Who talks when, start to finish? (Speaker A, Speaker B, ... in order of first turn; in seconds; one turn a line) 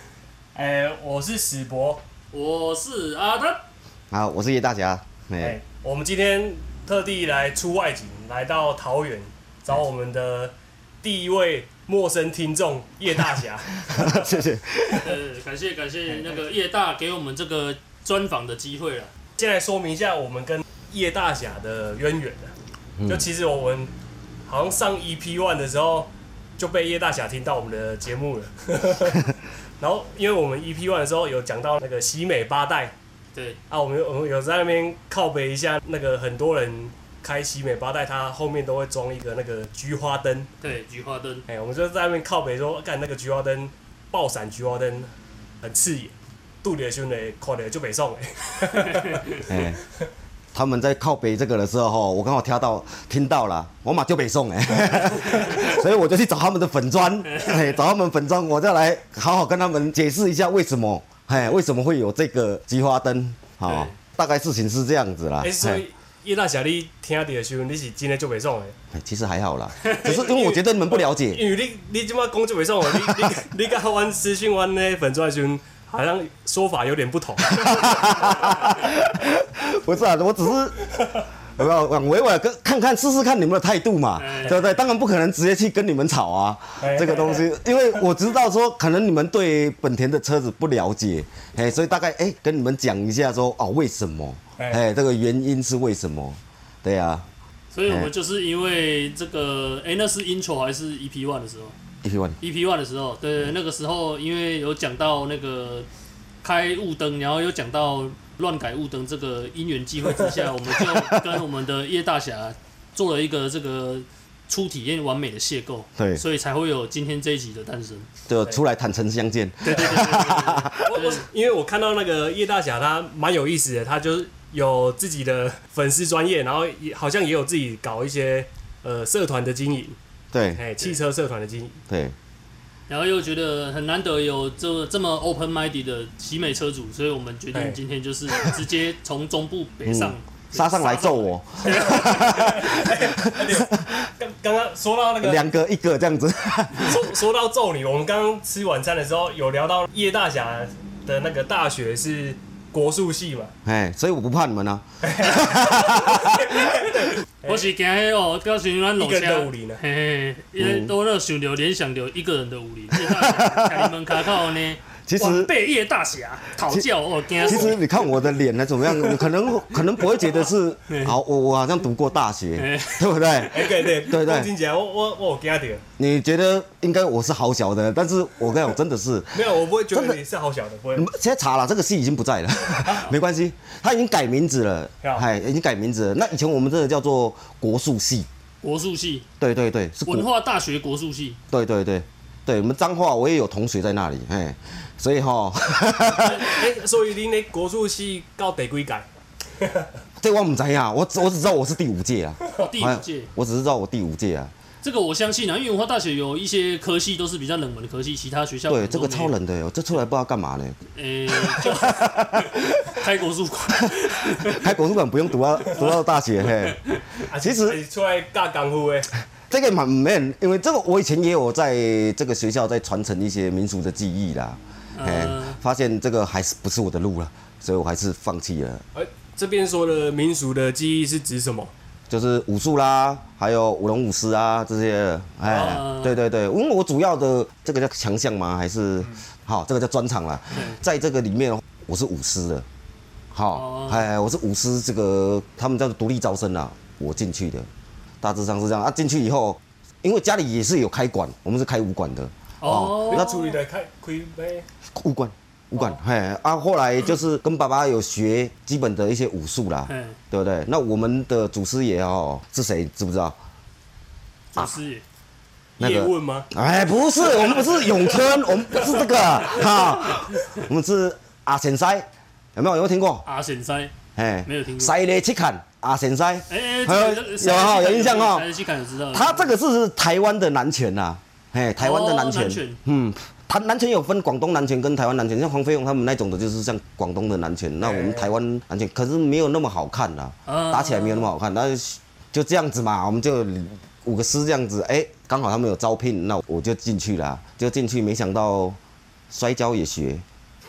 Speaker A: 0.5-2.0
Speaker B: 2.3-3.6
Speaker C: 4.1-5.6
Speaker A: 5.4-14.4
Speaker C: 13.8-15.2
Speaker B: 15.0-19.1
Speaker A: 16.1-16.4
Speaker A: 19.4-22.5
Speaker C: 23.0-23.2
Speaker A: 23.1-23.9
Speaker A: 24.5-32.9
Speaker A: 33.7-40.5
Speaker B: 40.6-41.5
Speaker A: 41.5-45.1
Speaker A: 45.6-49.4
Speaker C: 49.5-49.8
Speaker C: 50.5-65.8
Speaker A: 65.4-68.7
Speaker C: 68.9-71.4
Speaker A: 69.8-78.7
Speaker C: 77.5-80.8
Speaker C: 81.5-97.2
Speaker B: 84.2-84.7
Speaker A: 86.8-87.4
Speaker B: 97.7-101.7
Speaker C: 102.0-102.4
Speaker B: 102.4-105.9
Speaker B: 106.4-118.1
Speaker C: 110.7-111.4
Speaker C: 116.0-116.2
Speaker C: 118.3-120.8
Speaker B: 119.6-121.2
Speaker A: 120.8-130.0
Speaker C: 130.3-130.6
Speaker A: 130.5-131.8
Speaker C: 131.9-132.1
Speaker B: 132.9-142.5
Speaker C: 139.8-144.1
Speaker A: 141.6-145.5
Speaker C: 145.2-147.0
Speaker A: 146.8-153.5
Speaker C: 153.6-156.4
Speaker A: 155.0-157.7
Speaker B: 157.4-167.8
Speaker A: 159.0-159.8
Speaker C: 160.6-160.9
Speaker C: 162.9-163.9
Speaker C: 165.1-165.5
Speaker C: 167.4-174.5
Speaker B: 170.9-171.2
Speaker B: 172.5-173.4
Speaker A: 173.5-175.8
Speaker C: 176.0-180.2
Speaker A: 179.3-181.1
Speaker C: 180.9-188.3
Speaker A: 182.8-183.1
Speaker B: 188.6-189.2
Speaker C: 189.4-190.3
Speaker B: 190.1-191.4
Speaker C: 191.5-196.7
Speaker A: 196.1-199.1
Speaker A: 199.6-199.8
Speaker C: 200.2-204.5
Speaker B: 202.6-203.3
Speaker B: 204.8-209.3
Speaker C: 208.7-210.8
Speaker B: 210.9-214.7
Speaker C: 211.3-212.7
Speaker C: 213.8-216.8
Speaker A: 217.2-219.1
Speaker C: 217.4-217.8
Speaker C: 219.4-228.8
Speaker B: 224.9-225.6
Speaker A: 228.9-231.7
Speaker C: 232.1-242.7
Speaker B: 235.4-236.2
Speaker B: 240.5-240.8
Speaker C: 243.3-247.7
Speaker B: 243.5-244.0
Speaker C: 248.2-253.5
Speaker B: 252.6-253.3
Speaker A: 253.0-254.7
Speaker C: 254.9-263.4
Speaker B: 259.9-260.1
Speaker B: 264.5-265.0
Speaker A: 265.8-266.5
Speaker C: 265.8-273.2
Speaker A: 267.4-268.2
Speaker B: 273.2-273.9
Speaker C: 274.1-278.5
Speaker B: 274.4-274.9
Speaker B: 276.5-279.5
Speaker C: 279.1-298.8
Speaker B: 281.8-282.8
Speaker A: 287.8-288.3
Speaker B: 290.5-291.3
Speaker C: 299.3-300.2